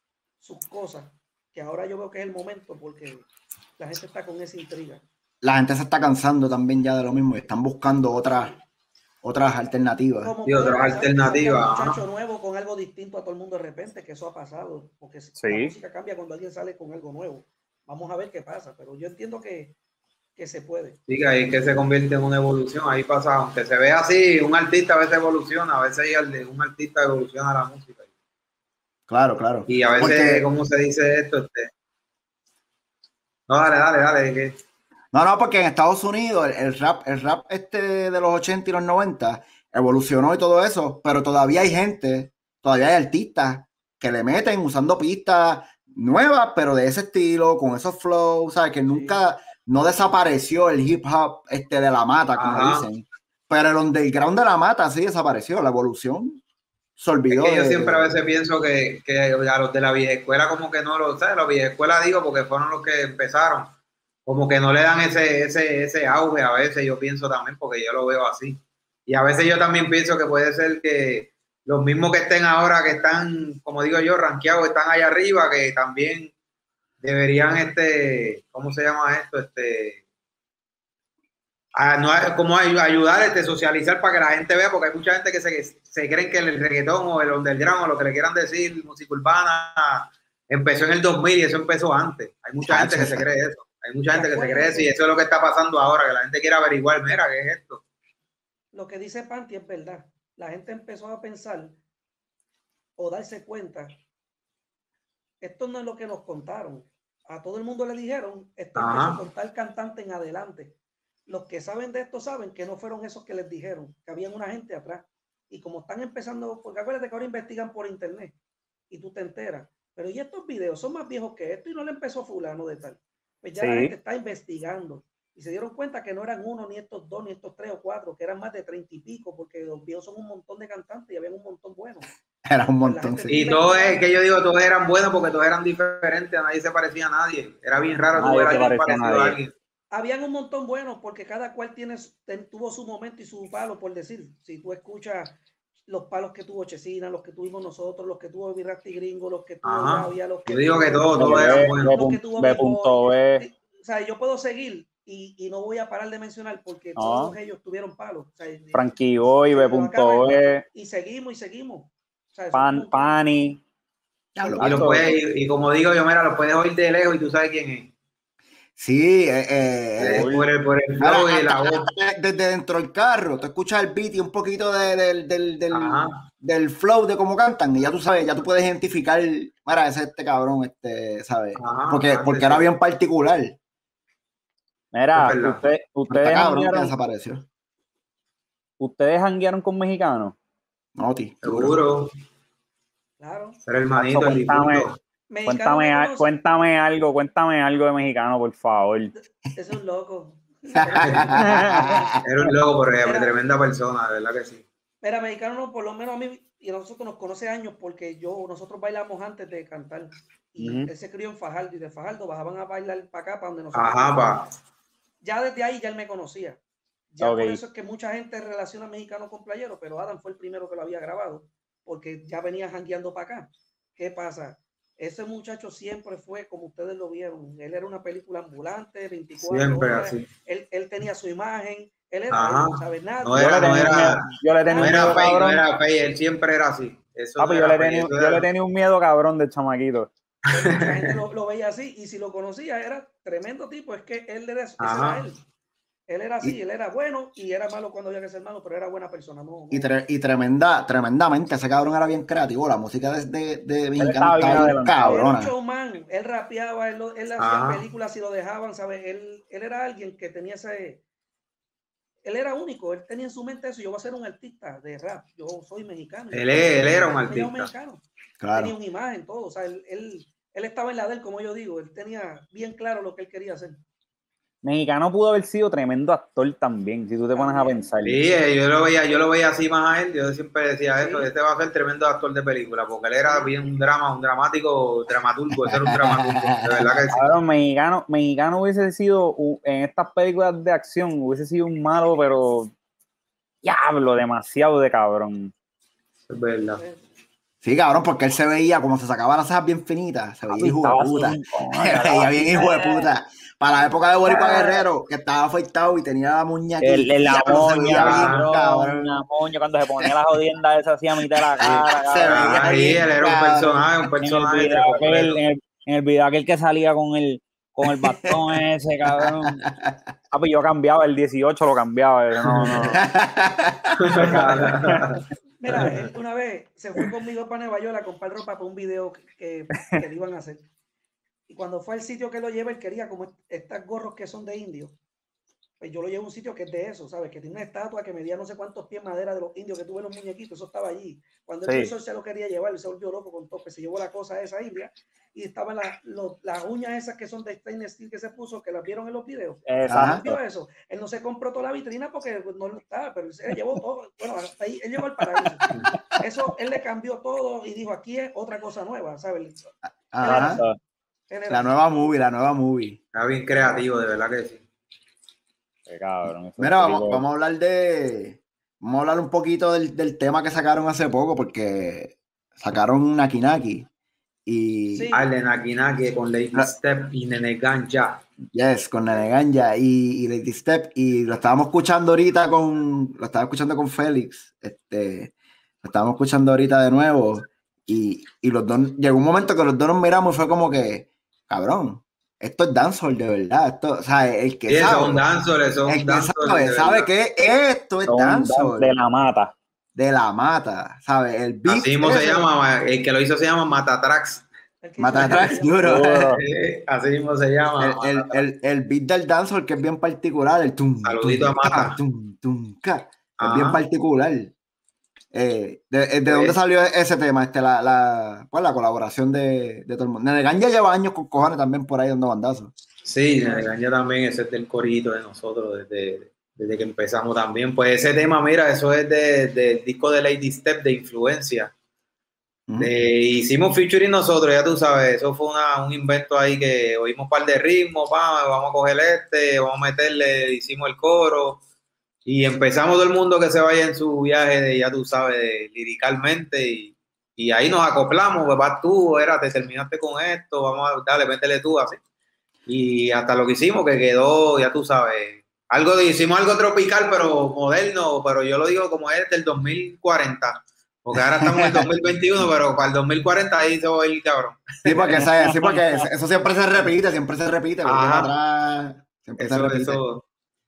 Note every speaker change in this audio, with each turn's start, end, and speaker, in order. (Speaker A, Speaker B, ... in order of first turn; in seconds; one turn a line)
Speaker A: 0.4-5.0
Speaker B: 5.4-8.5
Speaker A: 8.3-8.6
Speaker B: 9.2-10.3
Speaker A: 10.2-19.7
Speaker C: 10.4-12.0
Speaker D: 15.4-15.7
Speaker A: 20.4-21.0
Speaker C: 21.1-28.1
Speaker B: 29.1-30.4
Speaker C: 29.7-31.7
Speaker C: 33.5-34.6
Speaker B: 35.1-56.4
Speaker A: 48.9-49.2
Speaker C: 52.4-52.9
Speaker B: 57.0-58.2
Speaker C: 57.3-63.7
Speaker C: 64.2-76.3
Speaker C: 77.0-80.0
Speaker C: 81.8-97.8
Speaker B: 92.6-93.2
Speaker A: 94.1-94.9
Speaker A: 98.7-101.8
Speaker A: 103.0-104.0
Speaker A: 105.4-110.7
Speaker C: 108.8-109.2
Speaker A: 111.3-118.3
Speaker A: 118.9-132.1
Speaker D: 123.6-123.9
Speaker B: 132.4-133.4
Speaker A: 132.8-134.0
Speaker C: 133.3-139.5
Speaker D: 138.1-139.4
Speaker A: 139.9-158.9
Speaker C: 149.6-151.9
Speaker D: 151.2-153.4
Speaker D: 156.9-157.3
Speaker D: 158.7-160.6
Speaker A: 159.5-163.1
Speaker D: 162.5-163.6
Speaker B: 164.3-165.0
Speaker D: 164.4-165.1
Speaker C: 164.6-167.9
Speaker B: 168.8-170.3
Speaker C: 170.0-171.9
Speaker D: 170.0-170.5
Speaker B: 171.0-183.6
Speaker C: 175.7-176.2
Speaker C: 181.6-182.7
Speaker D: 184.9-186.9
Speaker C: 185.1-185.6
Speaker B: 186.1-187.4
Speaker D: 188.8-190.3
Speaker B: 191.0-191.8
Speaker C: 191.4-192.1
Speaker A: 193.2-193.6
Speaker C: 193.7-195.0
Speaker D: 193.9-194.9
Speaker A: 195.3-196.3
Speaker D: 195.5-199.1
Speaker A: 199.1-202.2
Speaker B: 200.7-202.2
Speaker C: 201.0-201.3
Speaker D: 201.3-202.0
Speaker C: 202.2-204.6
Speaker A: 203.0-203.3
Speaker A: 205.0-214.5
Speaker D: 210.6-210.9
Speaker C: 213.7-214.5
Speaker A: 215.2-216.6
Speaker A: 217.1-233.6
Speaker D: 217.2-217.6
Speaker C: 229.4-230.2
Speaker C: 232.3-234.2
Speaker D: 233.3-235.6
Speaker A: 234.6-235.2
Speaker C: 234.8-238.4
Speaker D: 237.4-240.1
Speaker C: 240.5-241.1
Speaker A: 240.5-245.4
Speaker C: 244.8-245.2
Speaker A: 246.1-249.9
Speaker B: 249.7-255.5
Speaker D: 254.0-255.2
Speaker A: 254.5-261.0
Speaker C: 257.4-257.8
Speaker A: 262.2-268.0
Speaker C: 266.3-267.7
Speaker B: 268.4-268.8
Speaker A: 268.5-273.8
Speaker D: 274.6-278.2
Speaker A: 277.3-277.8
Speaker C: 278.0-287.2
Speaker A: 281.0-281.3
Speaker A: 283.2-283.5
Speaker B: 285.6-287.0
Speaker D: 287.1-292.7
Speaker D: 293.6-295.5
Speaker C: 296.3-296.8
Speaker A: 296.8-297.0
Speaker B: 297.6-309.1
Speaker D: 300.5-303.1
Speaker D: 304.3-304.8
Speaker D: 306.8-312.9
Speaker C: 307.4-308.4
Speaker B: 311.6-314.0
Speaker C: 311.6-315.4
Speaker D: 314.2-319.6
Speaker B: 317.8-318.4
Speaker B: 319.2-320.0
Speaker D: 320.3-323.0
Speaker B: 322.8-324.4
Speaker C: 324.0-325.2
Speaker A: 324.2-324.9
Speaker D: 324.3-325.1
Speaker A: 325.6-330.6
Speaker B: 325.7-326.0
Speaker A: 331.5-334.9
Speaker A: 335.8-359.6
Speaker D: 341.6-341.9
Speaker D: 349.7-350.4
Speaker B: 349.9-350.2
Speaker B: 360.1-360.6
Speaker A: 360.2-360.6
Speaker D: 360.2-360.8
Speaker A: 361.3-361.7
Speaker B: 361.5-363.0
Speaker C: 363.1-364.6
Speaker D: 365.9-367.2
Speaker B: 366.6-373.9
Speaker B: 374.4-375.1
Speaker A: 374.9-375.3
Speaker C: 375.1-378.2
Speaker B: 378.5-395.2
Speaker C: 394.7-397.1
Speaker B: 395.9-398.9
Speaker D: 398.1-399.5
Speaker B: 399.9-402.4
Speaker C: 401.7-404.4
Speaker A: 404.8-405.9
Speaker B: 405.0-406.3
Speaker C: 405.2-405.5
Speaker D: 405.8-406.4
Speaker C: 406.4-408.4
Speaker B: 407.8-414.5
Speaker C: 411.0-412.0
Speaker C: 413.4-413.8
Speaker B: 415.3-422.7
Speaker C: 416.2-416.6
Speaker C: 423.0-431.7
Speaker A: 423.4-423.7
Speaker C: 432.8-441.6
Speaker C: 442.2-452.0
Speaker C: 452.7-465.2
Speaker B: 461.1-461.9
Speaker B: 464.8-470.0
Speaker D: 465.4-466.0
Speaker C: 467.8-468.3
Speaker C: 469.4-470.2